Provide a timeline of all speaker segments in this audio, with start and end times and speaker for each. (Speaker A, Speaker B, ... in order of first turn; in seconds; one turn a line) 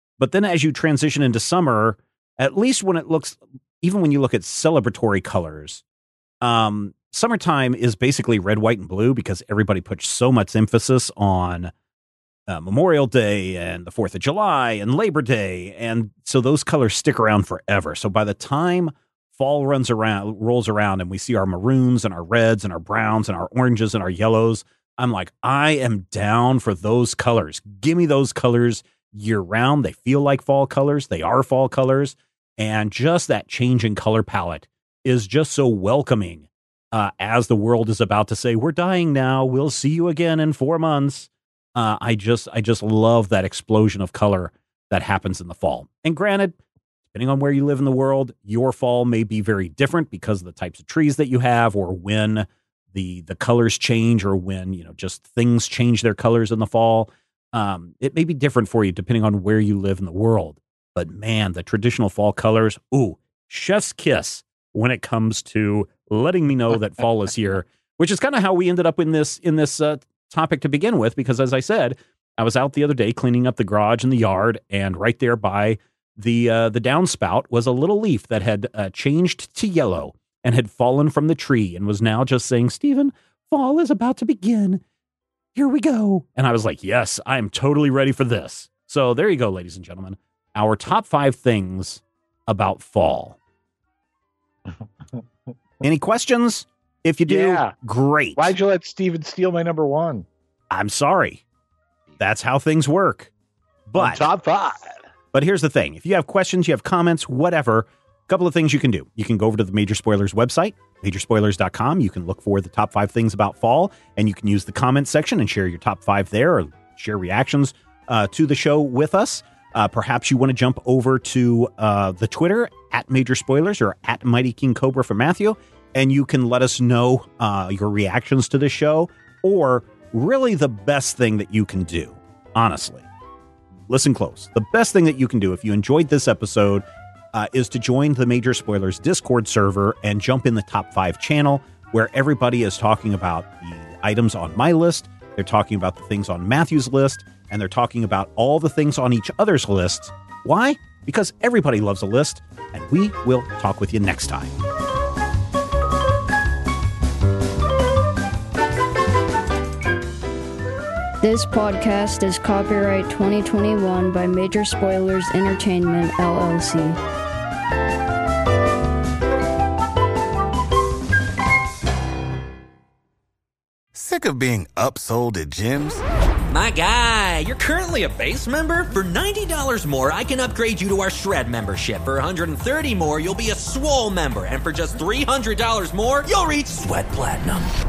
Speaker A: 0.2-5.8
Speaker A: 6.4-11.7
Speaker A: 12.5-46.6
Speaker A: 47.1-84.8
Speaker A: 85.5-93.4
Speaker A: 95.8-98.5
Speaker B: 97.3-97.8
Speaker B: 98.4-100.3
Speaker A: 100.7-101.4
Speaker A: 102.2-103.3
Speaker A: 103.9-104.3
Speaker B: 104.0-105.0
Speaker A: 105.3-133.1
Speaker A: 133.9-154.5
Speaker C: 161.2-167.0
Speaker D: 173.9-176.0
Speaker E: 176.5-187.7